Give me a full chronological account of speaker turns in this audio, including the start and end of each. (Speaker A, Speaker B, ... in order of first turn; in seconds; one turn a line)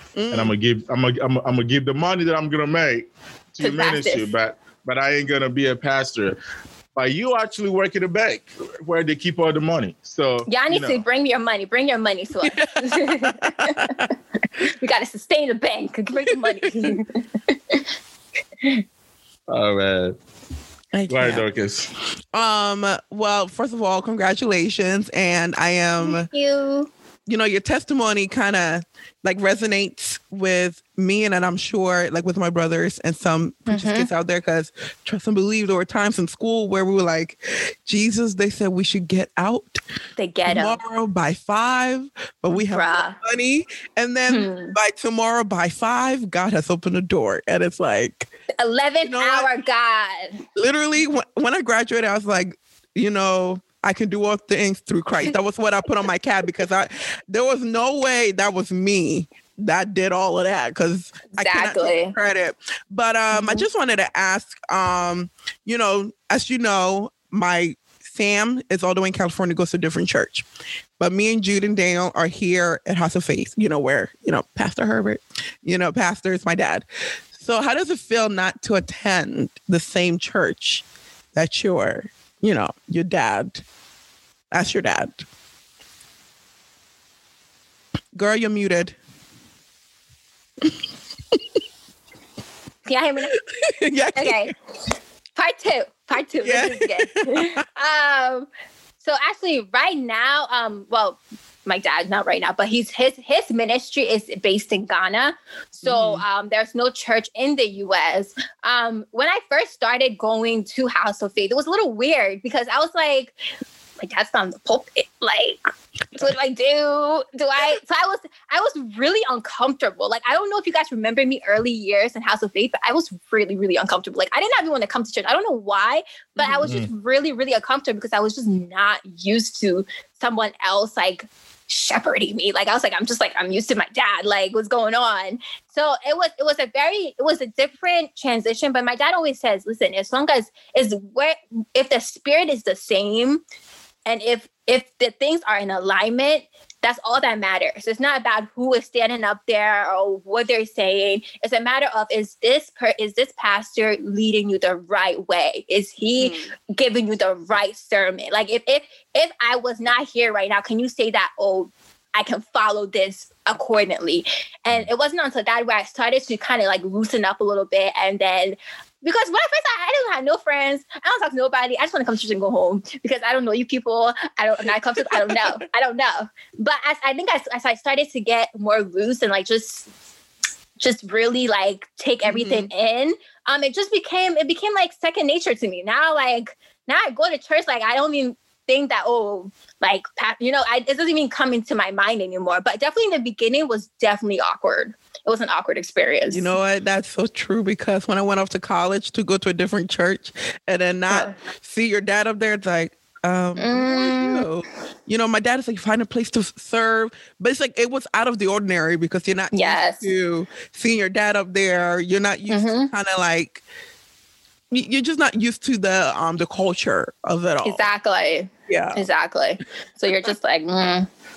Speaker A: 0.1-0.5
Speaker B: 0.3-6.4
Speaker C: 3.6-4.2
Speaker B: 6.9-11.0
Speaker C: 10.5-13.9
Speaker A: 12.5-14.1
Speaker C: 14.6-17.8
Speaker B: 19.5-20.1
Speaker A: 20.9-21.4
Speaker B: 21.1-21.9
Speaker A: 22.3-26.3
Speaker C: 26.0-26.9
Speaker A: 27.3-39.8
Speaker C: 33.7-34.1
Speaker C: 40.2-40.8
Speaker A: 40.5-48.3
Speaker C: 42.5-43.1
Speaker C: 44.3-44.7
Speaker C: 48.6-50.4
Speaker A: 49.0-49.5
Speaker A: 50.5-70.5
Speaker C: 61.4-62.1
Speaker C: 63.3-63.7
Speaker A: 71.0-83.6
Speaker A: 84.5-85.2
Speaker A: 88.1-88.9
Speaker C: 92.8-93.3
Speaker A: 93.3-94.5
Speaker C: 94.1-94.5
Speaker C: 95.3-98.5
Speaker A: 96.4-97.6
Speaker C: 99.0-113.3
Speaker A: 105.8-106.2
Speaker C: 114.0-143.4
Speaker B: 126.6-126.9
Speaker C: 144.1-179.8
Speaker A: 156.2-156.5
Speaker C: 180.8-196.5
Speaker A: 182.2-182.7
Speaker A: 196.3-213.6
Speaker C: 203.6-204.4
Speaker C: 209.5-210.1
Speaker C: 212.5-212.9
Speaker A: 214.7-217.9
Speaker C: 217.6-221.1
Speaker A: 218.7-219.0